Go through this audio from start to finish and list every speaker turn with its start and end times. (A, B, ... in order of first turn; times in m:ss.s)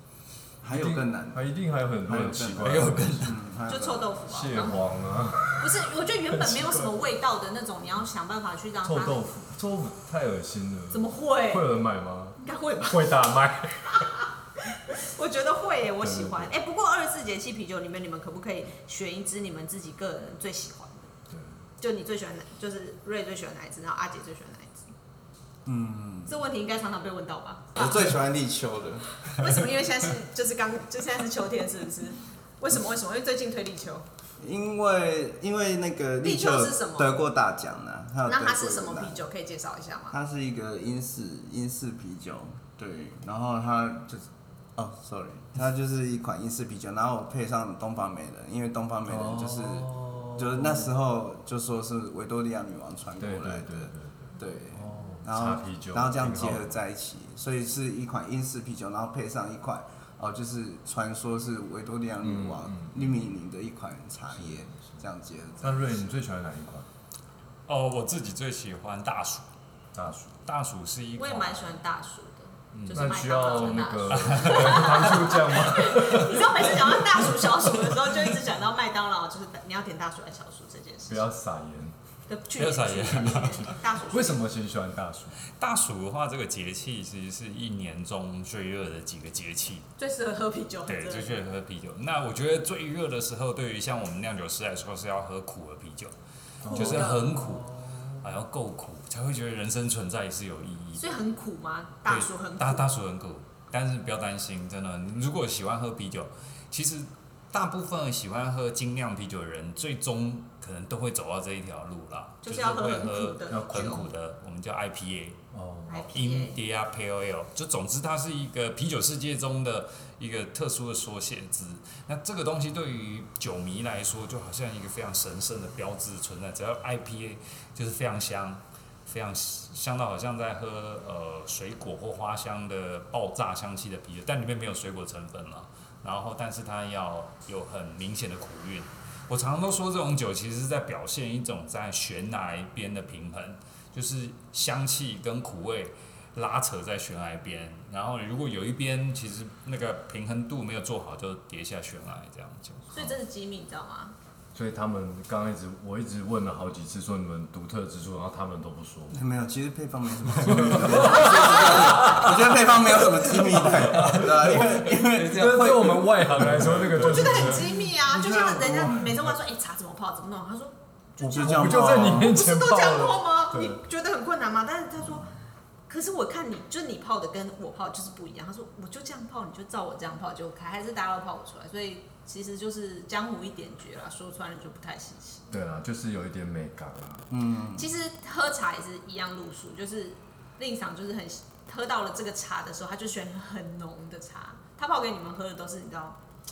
0:00.6-0:01.4 A
0:00.7-0:03.4 B
0:02.1-0:04.1 A
0:02.6-0:03.4 C
0:03.7-0:04.8 D
0:04.3-0:05.8 B
0:05.6-0:09.3 D
0:06.3-0:06.9 B
0:08.8-0:14.1 B
0:10.9-0:11.7 D
0:12.4-0:13.3 D
0:13.9-0:21.1 D
0:16.0-0:16.5 B
0:21.3-0:21.6 B
0:21.8-0:24.9 D
0:25.6-0:26.4 A
0:26.3-0:28.2 D
0:27.8-0:29.2 A
0:29.2-0:34.1 D
0:34.4-0:39.2 A
0:36.2-0:37.3 D
0:38.3-0:40.2 D
0:40.1-1:06.0 A
0:49.1-0:50.9 B
0:53.2-0:56.8 B
1:02.2-1:03.4 B
1:04.3-1:05.0 B
1:05.6-1:06.9 B
1:07.7-1:09.5 C
1:09.9-1:10.4 B
1:10.5-1:11.8 C
1:11.2-1:21.3 D
1:12.8-1:13.0 C
1:12.8-1:17.3 B
1:14.1-1:15.4 C
1:21.1-1:22.0 B
1:22.3-1:24.4 D
1:22.6-1:23.8 C
1:24.0-1:25.4 B
1:25.5-1:29.9 C
1:30.0-1:31.4 D
1:30.9-1:36.1 C
1:36.6-1:38.2 B
1:36.7-1:41.2 C
1:36.7-1:37.4 D
1:41.0-1:42.9 D
1:42.1-1:55.4 C
1:52.4-1:54.0 D
1:53.5-1:54.1 B
1:55.5-1:56.1 B
1:55.9-1:56.6 D
1:56.1-2:33.1 C
2:32.9-2:34.2 D
2:34.5-2:39.2 B
2:39.1-2:47.4 A
2:40.3-2:49.2 B
2:47.0-2:55.3 D
2:48.2-2:48.8 A
2:51.2-2:53.8 B
2:51.3-2:52.4 A
2:55.9-3:05.5 D
3:05.5-3:07.3 B
3:07.3-3:07.9 A
3:07.8-3:16.2 D